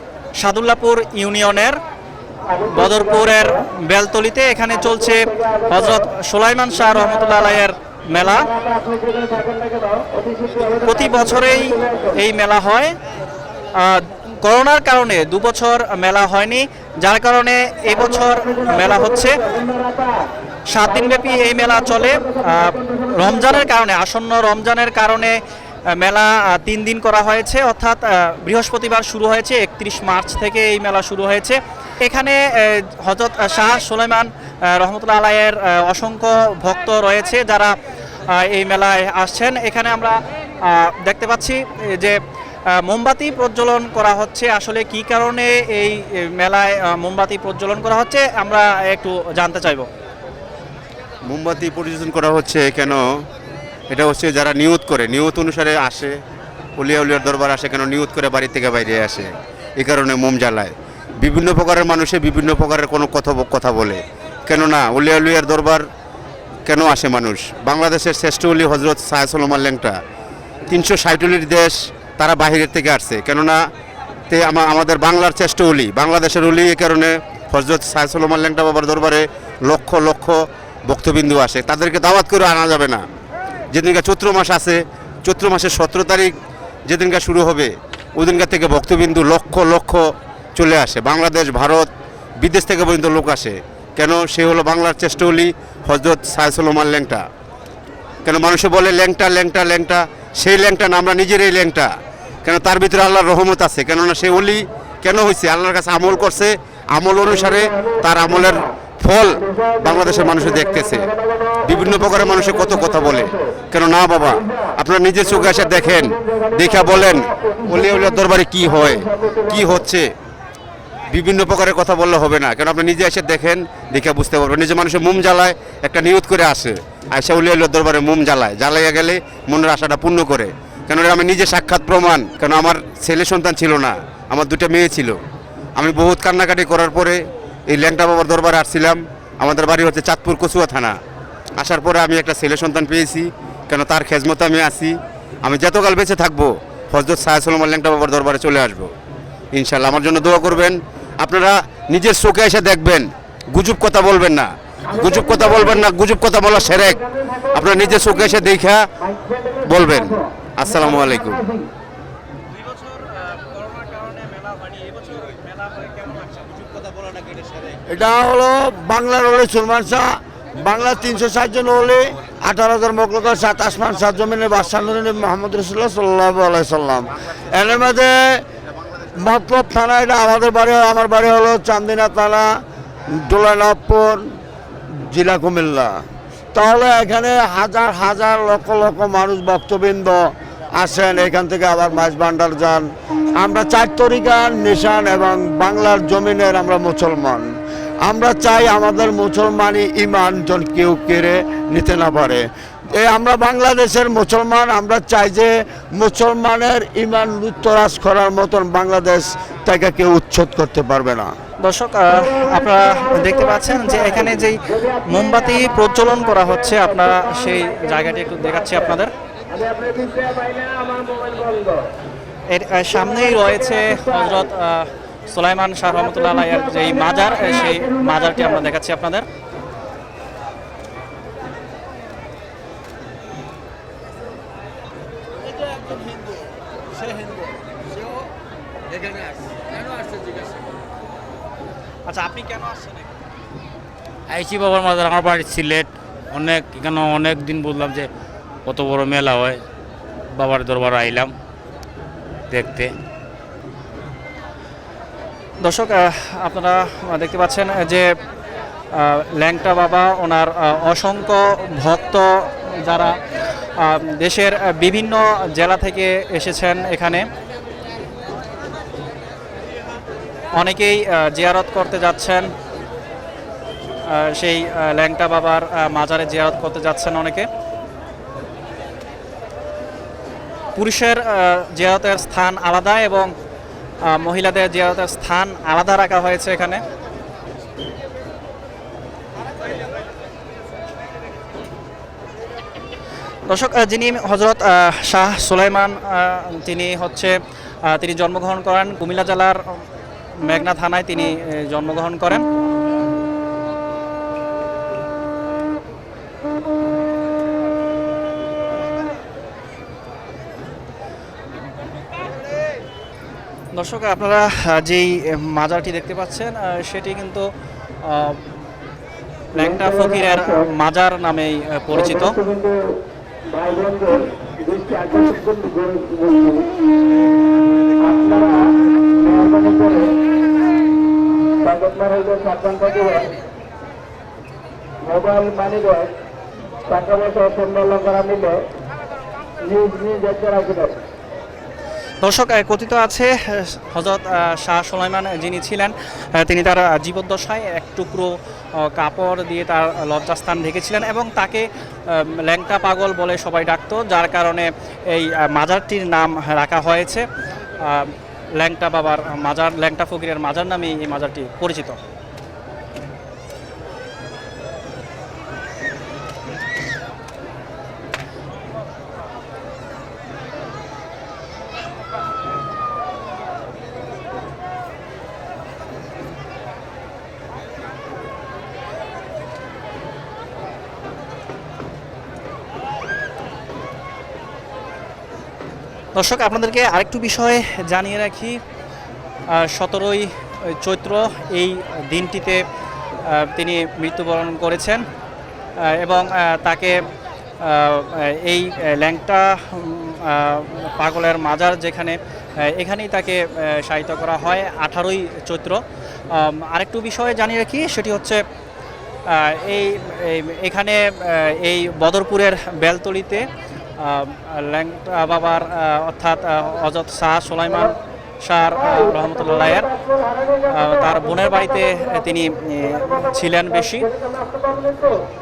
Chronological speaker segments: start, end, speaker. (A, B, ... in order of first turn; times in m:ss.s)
0:00.4-0:01.8 A
0:02.5-0:03.5 B
0:02.7-0:08.5 A
0:04.8-0:06.0 B
0:06.8-0:07.5 B
0:08.2-0:12.1 B
0:10.8-0:12.9 A
0:13.8-0:19.4 A
0:18.0-0:20.2 B
0:20.7-0:25.4 A
0:20.9-0:23.5 B
0:26.0-0:37.7 A
0:38.3-0:42.2 A
0:42.8-0:49.9 A
0:51.3-0:53.0 C
0:53.9-0:56.2 C
0:56.8-1:05.8 C
1:06.7-1:10.0 C
1:10.7-1:13.6 C
1:14.3-1:23.0 C
1:23.7-1:26.3 C
1:26.9-1:30.0 C
1:30.6-1:31.9 C
1:32.4-1:37.2 C
1:38.2-1:41.9 C
1:42.4-1:51.1 C
1:49.4-1:53.3 B
1:51.6-2:00.1 C
1:54.4-1:54.7 B
1:55.3-1:59.8 B
2:01.1-2:15.2 C
2:15.8-2:17.2 C
2:17.7-2:21.0 C
2:21.6-2:28.9 C
2:29.5-2:38.8 C
2:34.9-2:35.9 B
2:36.8-2:38.2 B
2:39.0-2:41.7 B
2:39.6-2:41.4 C
2:42.5-2:47.5 A
2:47.9-2:58.4 D
2:59.1-3:02.5 D
3:03.1-3:04.2 D
3:04.9-3:06.0 D
3:06.5-3:10.2 D
3:10.8-3:12.9 D
3:13.4-3:17.5 D
3:18.0-3:31.3 D
3:31.6-3:39.1 A
3:32.1-3:38.9 B
3:39.5-3:41.9 B
3:42.5-3:49.3 A
3:43.0-3:44.4 B
3:46.0-3:48.6 B
4:02.1-4:03.1 A
4:04.3-4:08.1 E
4:08.7-4:09.6 E
4:10.3-4:11.3 E
4:12.5-4:13.0 E
4:15.6-4:18.1 A
4:18.9-4:23.2 A
4:23.8-4:27.3 A
4:30.6-4:32.5 A
4:34.1-4:37.5 A
4:40.8-4:43.3 A
4:44.1-4:46.8 A
4:53.5-4:57.4 A
4:57.9-4:59.6 A
5:00.5-5:02.4 A
5:13.7-5:17.5 A
5:18.1-5:18.5 A
5:19.6-5:22.4 A
5:19.6-5:20.6 B
5:21.9-5:22.9 B
5:23.5-5:26.6 B
5:28.0-5:28.6 B
5:29.2-5:30.2 B
5:31.6-5:33.4 B
5:35.0-5:36.1 B
5:36.9-5:38.6 B
5:39.6-5:41.0 B
5:42.2-5:57.2 A
5:57.8-6:02.0 A
6:26.2-6:28.6 A
6:29.6-6:32.6 A
6:33.3-6:35.0 A
6:35.9-6:37.0 A
6:37.6-6:45.8 A
6:46.3-6:48.4 A
6:49.3-6:53.5 A
6:54.0-7:00.0 A
7:00.7-7:04.1 A
7:04.1-7:05.2 B